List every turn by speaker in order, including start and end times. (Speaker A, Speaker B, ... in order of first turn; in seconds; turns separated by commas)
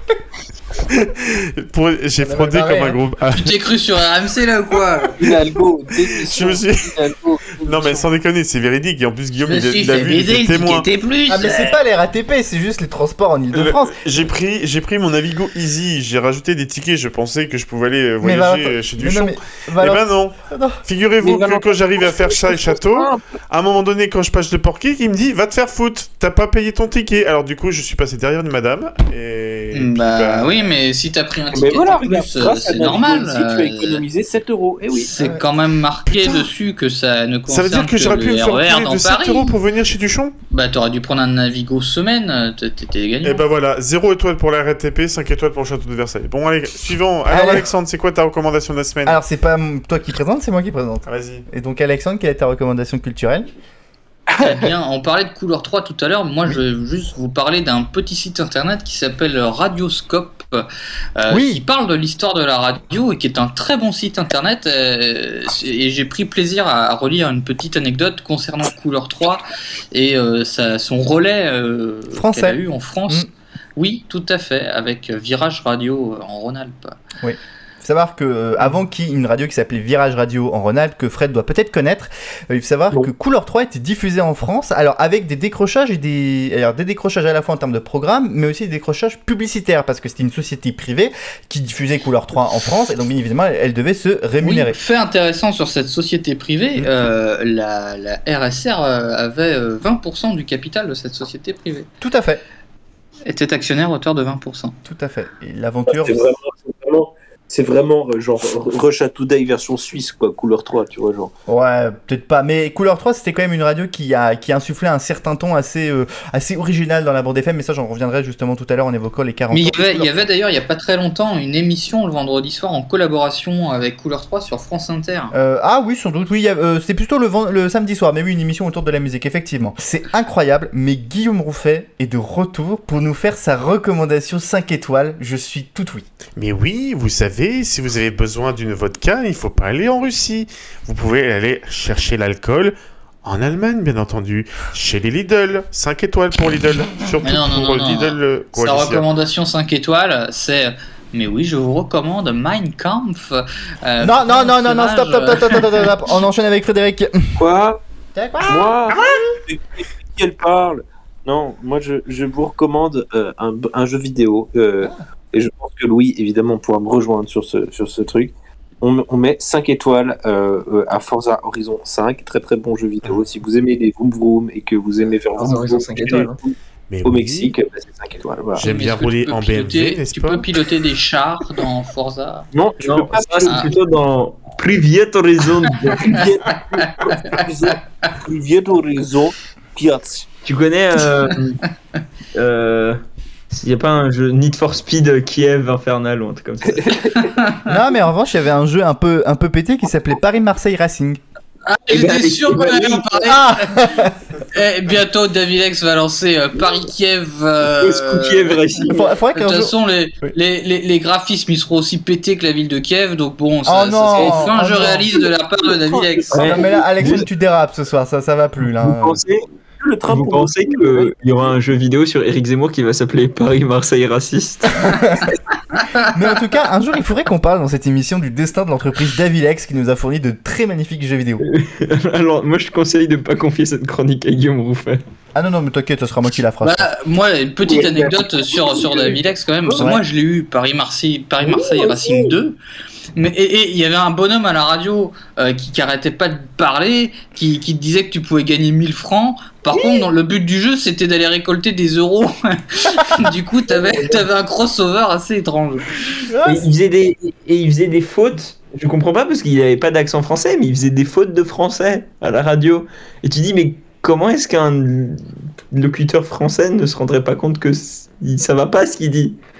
Speaker A: 0.9-3.5, Speaker B: 2.2-3.0, Speaker C: 3.3-5.2, Speaker D: 5.2-8.1, Speaker A: 6.2-7.0, Speaker A: 7.6-10.9, Speaker C: 9.4-11.8, Speaker B: 11.3-14.0, Speaker A: 13.5-30.7, Speaker B: 18.2-20.8, Speaker D: 21.2-23.2, Speaker C: 29.7-34.0, Speaker D: 31.5-35.1, Speaker C: 34.9-39.6, Speaker B: 35.2-35.5, Speaker A: 37.5-40.4, Speaker C: 40.5-43.4, Speaker A: 43.2-49.2, Speaker B: 47.3-47.7, Speaker B: 49.1-53.5, Speaker A: 51.1-51.5, Speaker C: 54.4-77.0, Speaker B: 61.3-61.6, Speaker B: 72.1-73.3, Speaker B: 77.2-94.8, Speaker C: 94.4-101.9, Speaker B: 102.0-102.4, Speaker C: 103.3-104.8, Speaker B: 104.8-106.3, Speaker D: 105.9-111.3, Speaker B: 111.5-120.3, Speaker C: 119.5-125.3, Speaker B: 125.3-136.1, Speaker A: 136.4-149.1, Speaker C: 147.2-155.9, Speaker B: 154.0-157.3, Speaker D: 157.4-157.8, Speaker B: 158.1-159.3, Speaker D: 158.4-178.7, Speaker E: 175.4-176.4, Speaker A: 176.9-177.5, Speaker A: 178.6-180.5, Speaker C: 178.6-182.5, Speaker D: 182.5-183.8, Speaker E: 182.8-186.2, Speaker D: 185.9-190.3, Speaker C: 186.1-187.7, Speaker E: 190.4-191.6, Speaker E: 192.3-197.2, Speaker D: 196.8-197.3, Speaker C: 197.2-197.7, Speaker B: 197.7-201.2, Speaker C: 201.7-203.9, Speaker E: 201.9-203.3, Speaker B: 203.3-204.1, Speaker C: 204.5-216.6, Speaker E: 207.8-209.1, Speaker B: 208.9-209.7, Speaker B: 213.6-215.2, Speaker D: 214.1-214.6, Speaker D: 215.6-216.8, Speaker E: 216.3-217.3, Speaker B: 216.4-219.2, Speaker E: 218.8-219.4, Speaker D: 219.8-221.1, Speaker E: 220.1-225.0, Speaker B: 224.8-225.3, Speaker B: 226.1-231.4, Speaker E: 231.4-235.0, Speaker B: 235.3-236.9, Speaker C: 236.6-242.6, Speaker D: 237.6-239.9, Speaker B: 239.8-240.0, Speaker D: 241.4-242.4, Speaker C: 243.2-256.2, Speaker B: 249.7-250.1, Speaker B: 253.0-253.2, Speaker B: 256.2-256.7, Speaker E: 256.4-269.4